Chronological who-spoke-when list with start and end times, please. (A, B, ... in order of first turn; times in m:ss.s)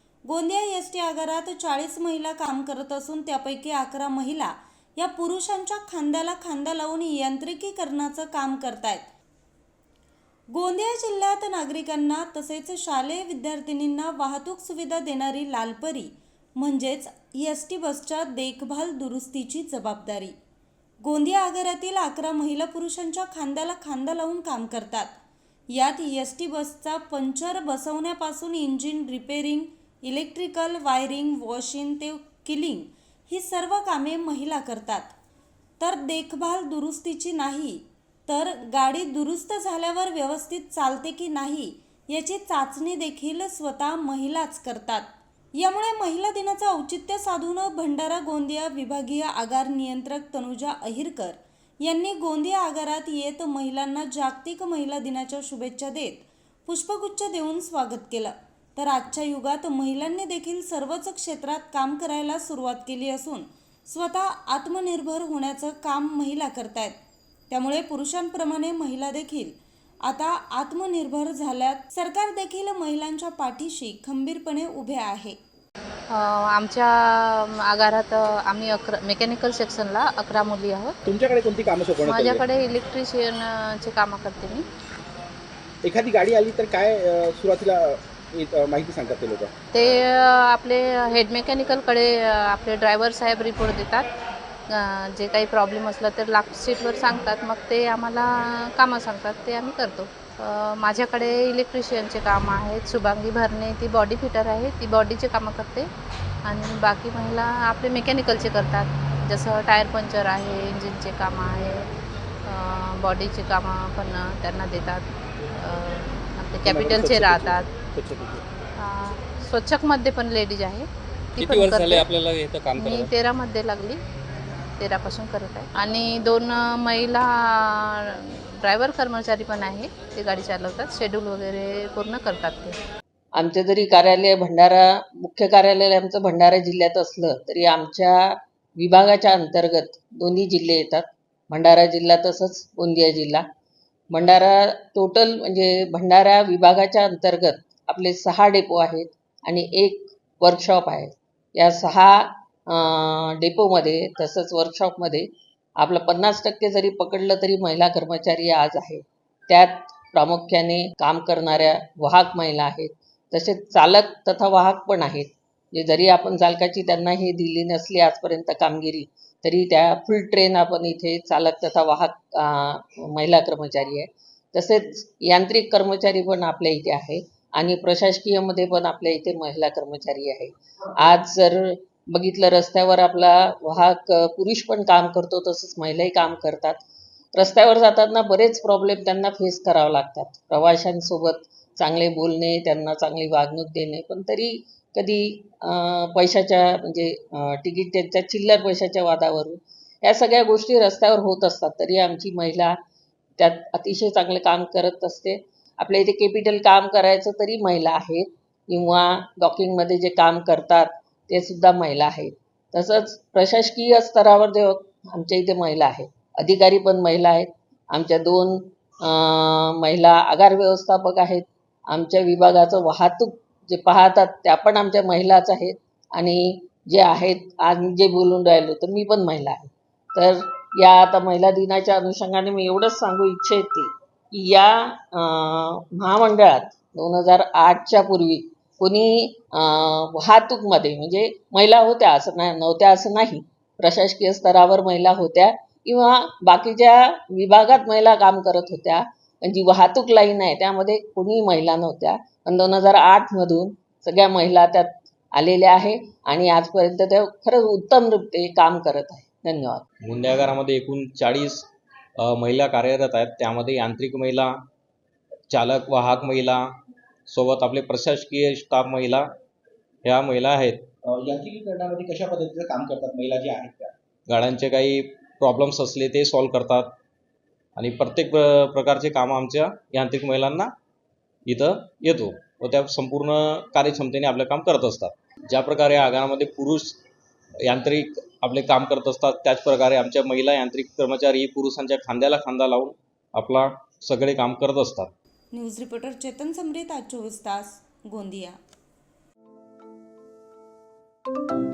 0:00.2-0:09.1 A
0:10.5-0:20.4 A
0:21.0-0:25.2 A
0:25.7-0:35.1 A
0:35.8-1:07.0 A
1:07.5-1:15.4 A
1:16.1-1:21.0 B
1:21.1-1:22.5 C
1:22.0-1:24.6 B
1:25.8-1:29.5 C
1:29.7-1:34.1 B
1:34.7-1:45.9 B
1:46.5-1:51.9 B
1:52.5-1:57.7 B
1:56.6-1:58.4 C
1:58.8-2:02.1 B
2:01.4-2:03.1 D
2:02.8-2:04.0 B
2:04.8-2:12.8 B
2:13.4-2:23.4 E
2:24.1-3:06.8 E
3:07.4-3:22.8 E
3:23.4-4:19.8 E
4:20.0-4:24.6 D
4:25.5-4:26.7 D
4:27.3-4:29.3 D
4:30.0-4:30.9 D
4:31.0-4:33.9 C
4:34.3-4:37.0 D
4:37.8-4:40.7 D
4:41.5-4:47.0 D
4:47.6-4:55.1 D
4:55.5-4:58.6 A